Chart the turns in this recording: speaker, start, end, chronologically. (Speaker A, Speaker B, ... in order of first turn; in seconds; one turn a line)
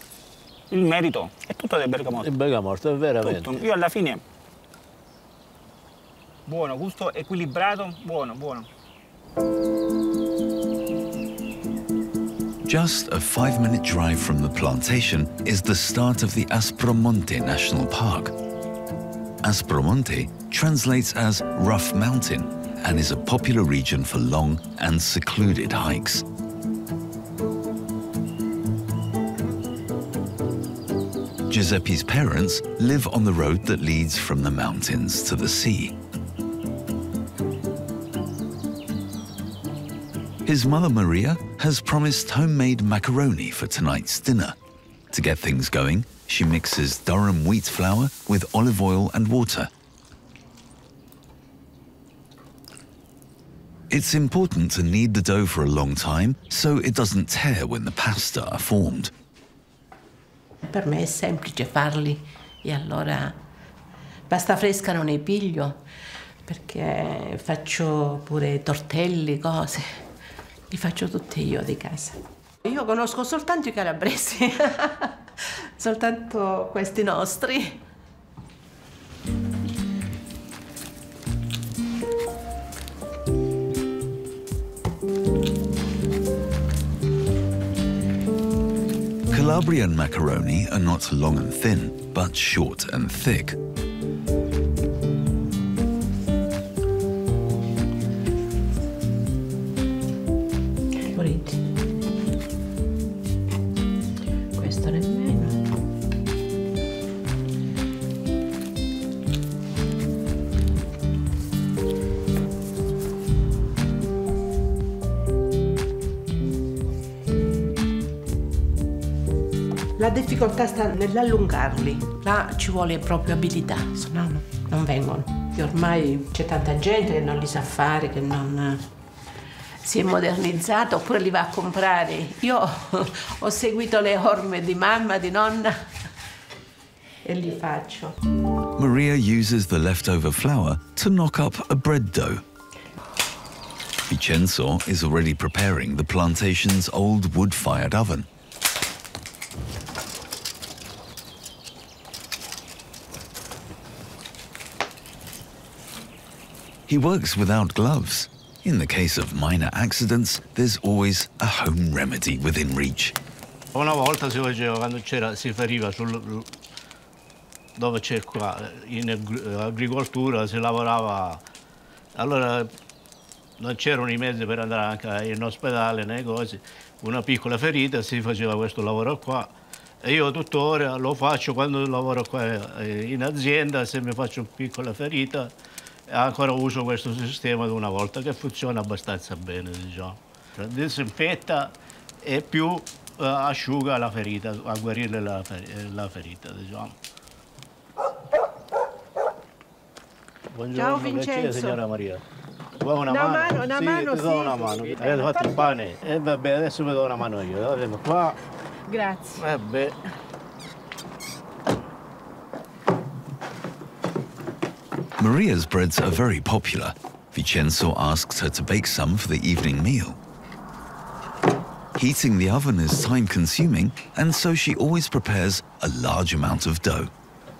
Speaker A: 0.7-2.3
Speaker B: 2.2-3.6
Speaker A: 3.2-4.2
Speaker A: 6.5-8.7
Speaker C: 12.6-18.3
Speaker C: 19.4-26.2
Speaker C: 31.5-35.9
Speaker C: 40.5-44.5
Speaker C: 45.1-49.7
Speaker C: 53.9-59.1
Speaker D: 60.6-63.4
Speaker D: 64.3-65.8
Speaker D: 66.4-70.0
Speaker D: 70.7-77.8
Speaker C: 89.3-93.6
Speaker D: 101.0-101.6
Speaker D: 104.5-105.6
Speaker D: 120.0-128.9
Speaker D: 129.8-135.9
Speaker D: 137.2-138.2
Speaker C: 138.8-142.4
Speaker C: 144.1-148.3
Speaker C: 156.9-163.2
Speaker B: 163.7-166.5
Speaker B: 167.8-171.4
Speaker B: 172.1-172.7
Speaker B: 173.6-185.5
Speaker B: 186.1-196.9
Speaker B: 200.5-202.2
Speaker D: 200.8-201.7
Speaker B: 202.8-208.4
Speaker D: 203.1-205.5
Speaker D: 208.9-209.2
Speaker B: 209.3-209.9
Speaker C: 215.2-220.2
Speaker C: 221.9-227.1